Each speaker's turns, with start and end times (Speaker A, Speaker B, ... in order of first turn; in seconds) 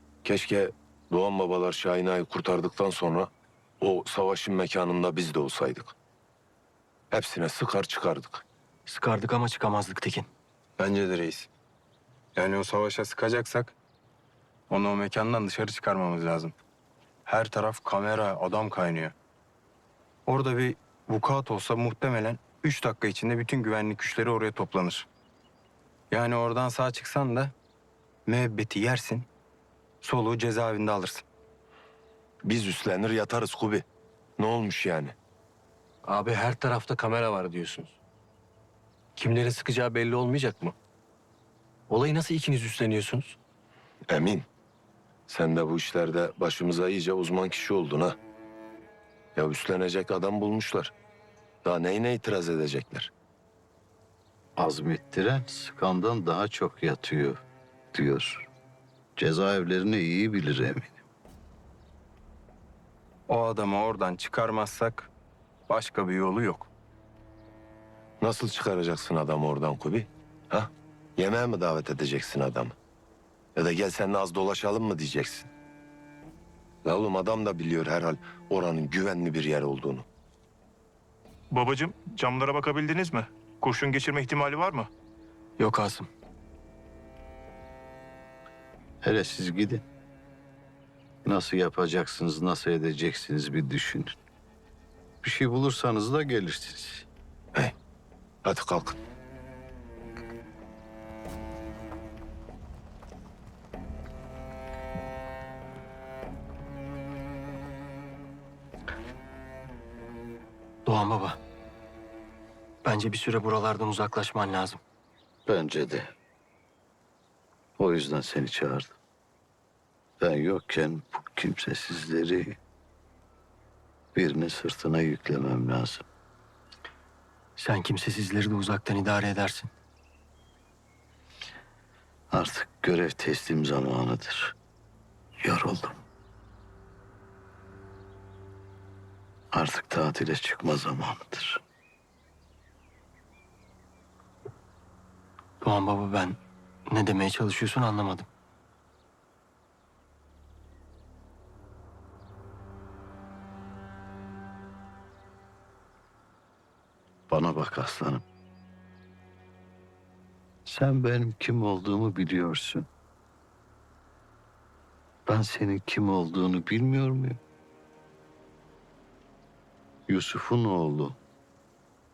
Speaker A: 0.2-5.9, 7.1-8.4, 32.4-33.8, 34.4-35.1, 44.1-44.5, 45.3-48.1, 49.3-50.9, 51.6-53.1, 68.2-72.7, 73.5-75.5, 76.8-80.0, 98.4-99.0
Speaker B: 8.8-10.3, 85.6-86.1, 110.8-111.4, 112.8-114.8, 127.5-129.7, 145.6-148.3
Speaker C: 10.8-11.5, 12.3-13.7, 14.7-16.5, 17.2-19.1, 20.2-25.1, 26.1-27.5, 28.2-29.3, 30.0-31.2, 63.3-65.1, 65.7-66.7
Speaker D: 36.0-38.0, 39.1-40.7, 41.9-43.4
Speaker E: 54.6-58.5, 59.1-61.0, 89.0-89.8, 91.2-94.2, 95.2-97.1, 115.5-116.1, 117.8-119.0, 120.2-122.6, 124.1-126.0, 132.3-134.6, 135.4-136.0, 139.5-141.6, 157.3-158.2, 160.7-162.9, 165.2-167.4, 170.1-171.2
Speaker F: 81.5-84.9